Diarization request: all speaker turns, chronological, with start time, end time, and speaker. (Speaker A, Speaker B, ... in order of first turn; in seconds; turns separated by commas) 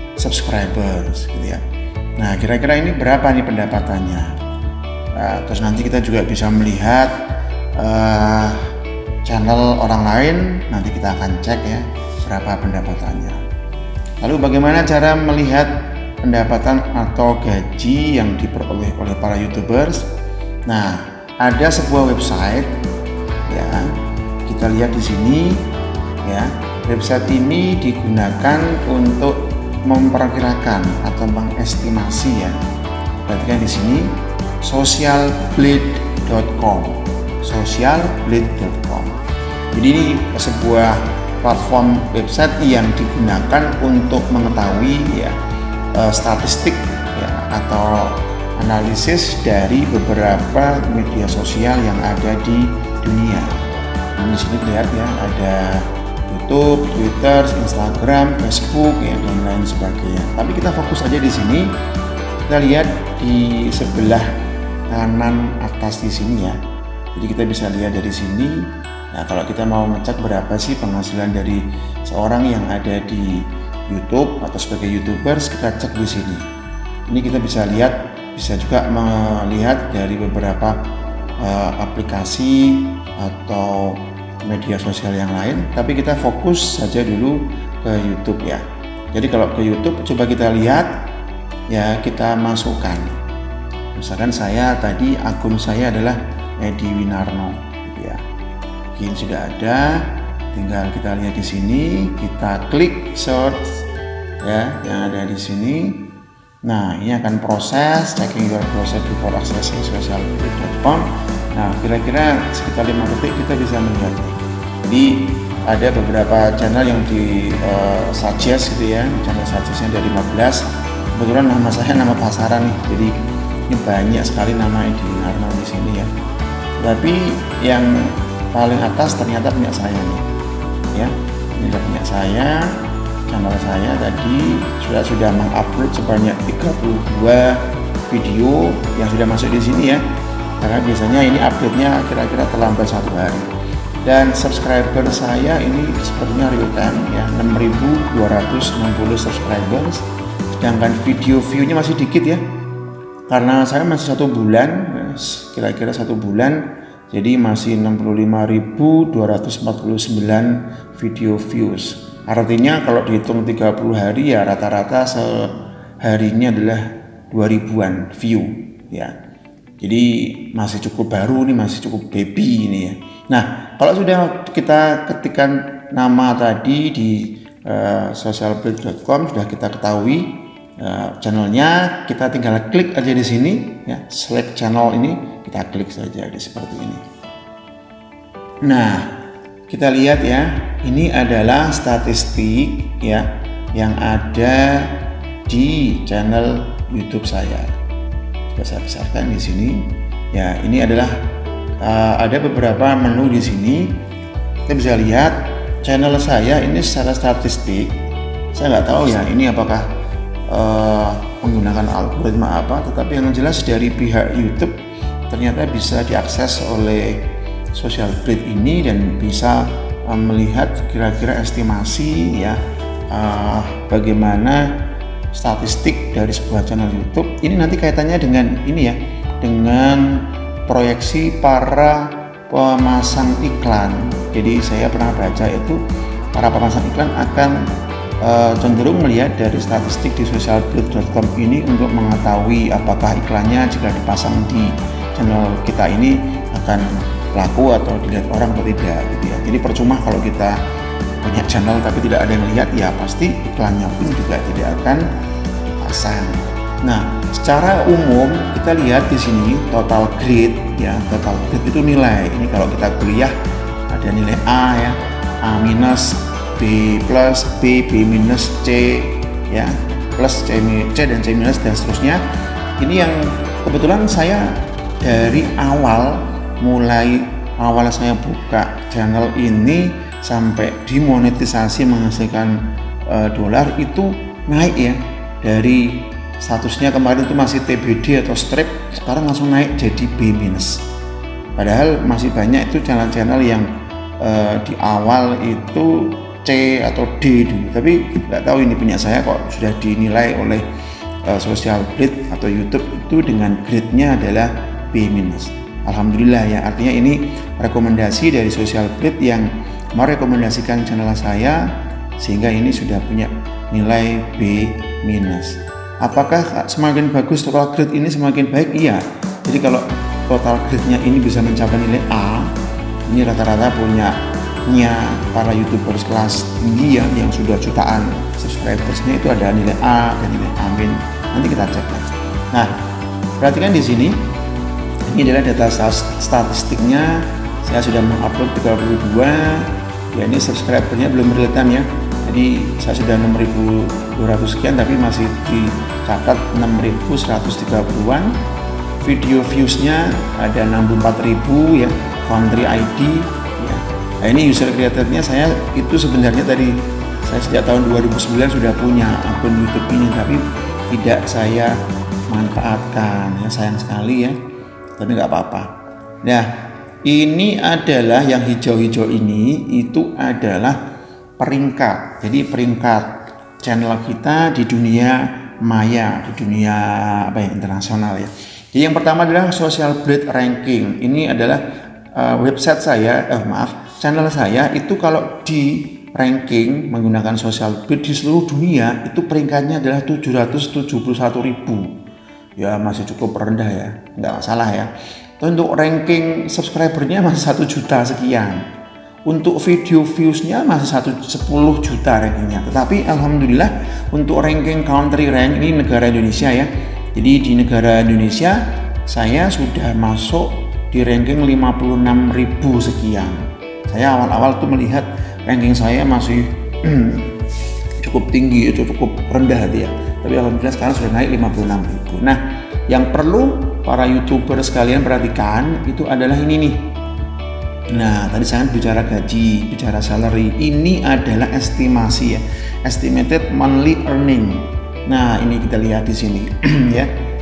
Speaker A: 0.2-1.6, Speaker A: 2.2-4.3, Speaker A: 5.2-7.2, Speaker A: 7.8-8.7, Speaker A: 9.2-13.4, Speaker A: 14.2-20.1, Speaker A: 20.7-22.7, Speaker A: 23.5-23.9, Speaker A: 24.5-25.7, Speaker A: 26.2-32.6, Speaker A: 33.1-39.2, Speaker A: 39.7-45.4, Speaker A: 45.9-53.6, Speaker A: 54.2-61.8, Speaker A: 62.5-64.3, Speaker A: 64.9-66.6, Speaker A: 67.2-76.5, Speaker A: 77.1-91.0, Speaker A: 91.7-93.2, Speaker A: 94.0-98.2, Speaker A: 98.9-103.8, Speaker A: 104.4-106.1, Speaker A: 106.7-123.2, Speaker A: 123.7-126.1, Speaker A: 126.8-130.2, Speaker A: 130.9-140.0, Speaker A: 140.6-143.5, Speaker A: 144.0-150.1, Speaker A: 150.6-152.4, Speaker A: 153.3-169.1, Speaker A: 169.8-187.1, Speaker A: 188.6-189.2, Speaker A: 189.7-197.7, Speaker A: 198.5-201.2, Speaker A: 201.8-204.0, Speaker A: 204.7-208.0, Speaker A: 208.5-209.9, Speaker A: 210.5-214.8, Speaker A: 215.3-224.7, Speaker A: 225.3-235.8, Speaker A: 236.3-237.7, Speaker A: 238.2-250.6, Speaker A: 251.2-255.1, Speaker A: 255.8-263.3, Speaker A: 263.9-272.2, Speaker A: 272.8-290.8, Speaker A: 291.6-293.7, Speaker A: 294.2-300.6, Speaker A: 301.3-322.5, Speaker A: 323.1-332.8, Speaker A: 333.4-334.3, Speaker A: 335.1-348.4, Speaker A: 349.0-361.8, Speaker A: 362.3-364.4, Speaker A: 365.0-365.7, Speaker A: 366.2-366.5, Speaker A: 367.1-370.8, Speaker A: 371.4-381.6, Speaker A: 382.1-392.0, Speaker A: 392.6-398.7, Speaker A: 399.3-417.3, Speaker A: 418.0-426.9, Speaker A: 427.9-437.1